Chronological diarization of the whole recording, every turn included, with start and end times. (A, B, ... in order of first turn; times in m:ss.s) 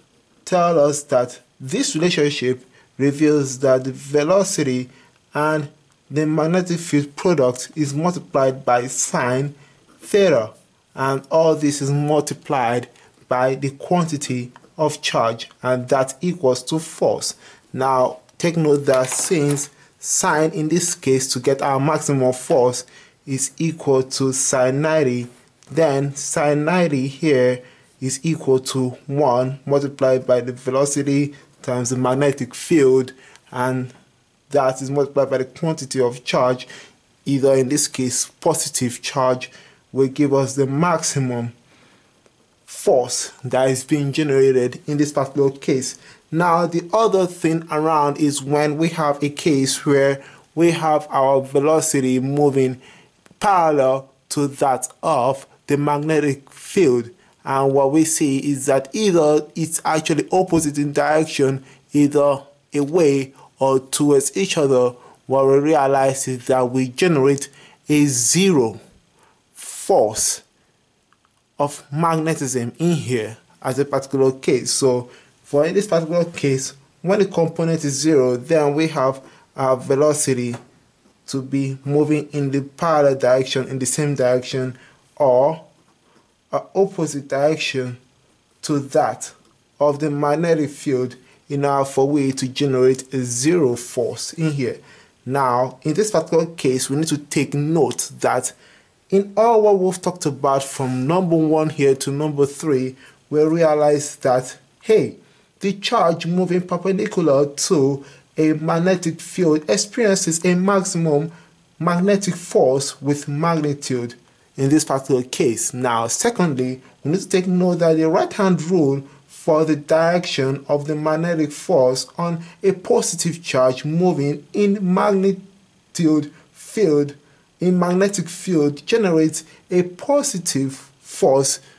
0:00.4-0:33.9 A
0:34.5-0:36.7 A
0:37.2-0:41.5 A
0:42.7-0:52.8 A
0:53.4-1:08.8 A
1:09.6-1:10.4 A
1:11.6-1:20.6 A
1:21.2-1:25.6 A
1:26.5-1:28.0 A
1:28.6-1:38.5 A
1:39.1-2:11.6 A